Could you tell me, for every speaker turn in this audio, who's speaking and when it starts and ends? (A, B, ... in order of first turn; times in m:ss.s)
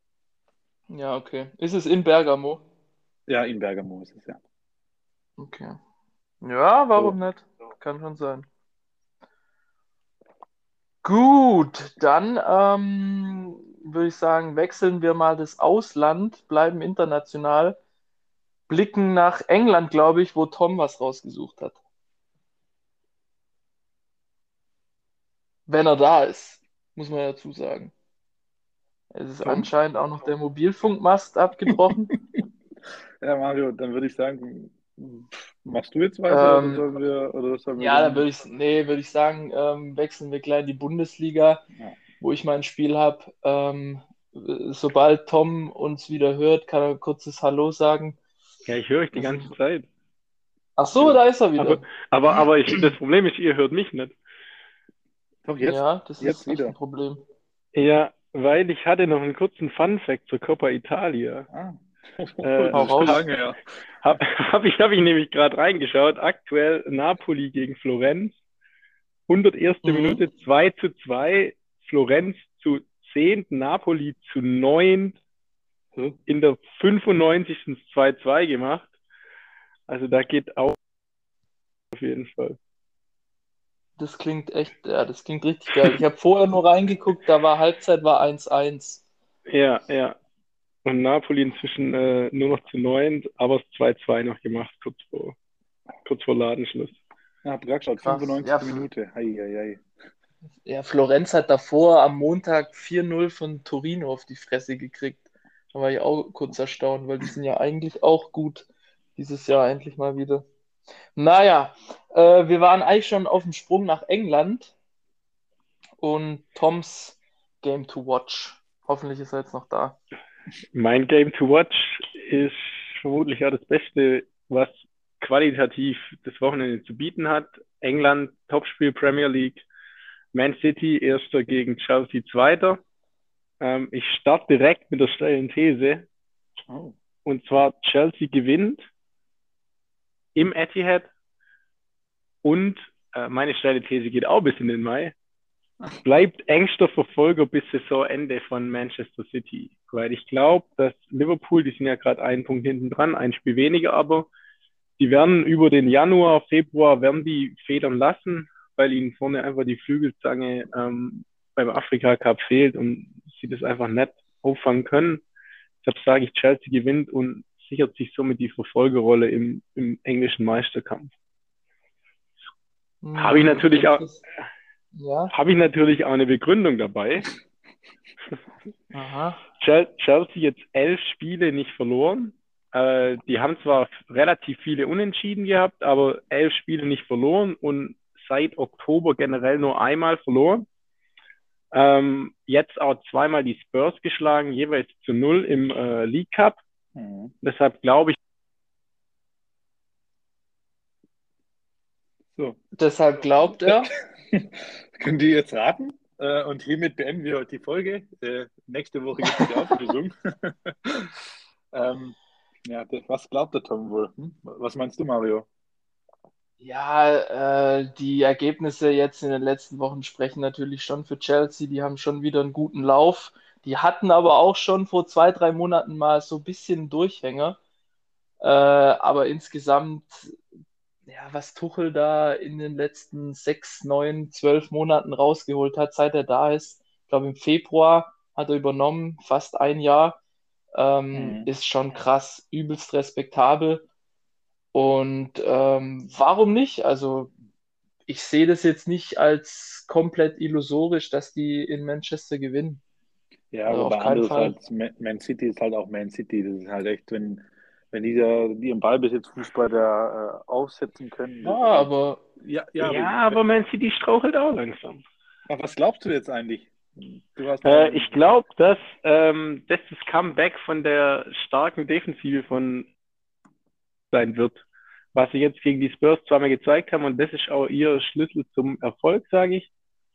0:00.9-0:02.6 A
0:03.3-0:04.4 B
0:05.4-0:05.8 A
0:06.4-0:08.5 A
0:11.0-0:17.8 A
0:18.7-0:21.8 A
0:25.7-0:27.9 A
0:29.1-0:32.1 A
0:29.4-0:29.7 B
0:33.2-0:38.3 B
0:36.3-0:36.8 A
0:37.8-0:41.6 A
0:42.2-0:48.2 A
0:48.7-0:49.9 C
0:49.1-0:49.5 A
0:50.8-0:51.9 A
0:51.6-0:54.1 C
0:55.4-0:56.8 B
0:55.6-0:57.2 A
0:57.7-1:01.5 C
1:01.5-1:03.6 B
1:02.4-1:03.3 C
1:02.7-1:03.2 A
1:04.0-1:08.3 C
1:09.3-1:15.2 C
1:09.8-1:10.2 A
1:16.3-1:18.9 C
1:19.9-1:20.8 C
1:21.9-1:22.6 C
1:24.0-1:29.0 A
1:29.5-1:30.2 C
1:30.8-1:35.4 C
1:36.0-1:37.0 C
1:37.4-1:39.8 B
1:38.0-1:38.8 A
1:40.7-1:50.4 A
1:51.2-1:54.7 A
1:56.0-2:00.0 A
2:00.7-2:09.6 C
2:10.3-2:12.8 C
2:13.6-2:16.1 C
2:16.7-2:17.0 B
2:17.2-2:18.9 C
2:20.4-2:21.1 C
2:22.4-2:25.2 C
2:26.0-2:34.3 C
2:35.0-2:45.2 C
2:45.8-2:51.1 C
2:53.0-2:54.2 A
2:53.2-2:54.1 C
2:54.9-2:55.3 A
2:55.3-2:57.3 C
2:58.9-2:59.4 A
2:59.6-3:10.7 C
3:11.7-3:16.6 C
3:17.0-3:17.3 B
3:17.4-3:18.2 C
3:22.4-3:22.6 B
3:22.8-3:23.9 A
3:23.4-3:35.5 B
3:29.2-3:29.6 A
3:36.6-3:47.6 A
3:48.4-3:50.4 A
3:51.1-4:00.2 A
4:00.8-4:03.8 A
4:01.1-4:01.5 B
4:04.7-4:07.3 A
4:08.1-4:12.8 A
4:13.5-4:23.4 B
4:13.7-4:14.6 A
4:21.4-4:22.2 A
4:22.8-4:25.0 C
4:25.5-4:28.2 B
4:27.6-4:32.9 C
4:34.1-4:34.6 C
4:35.1-4:39.7 C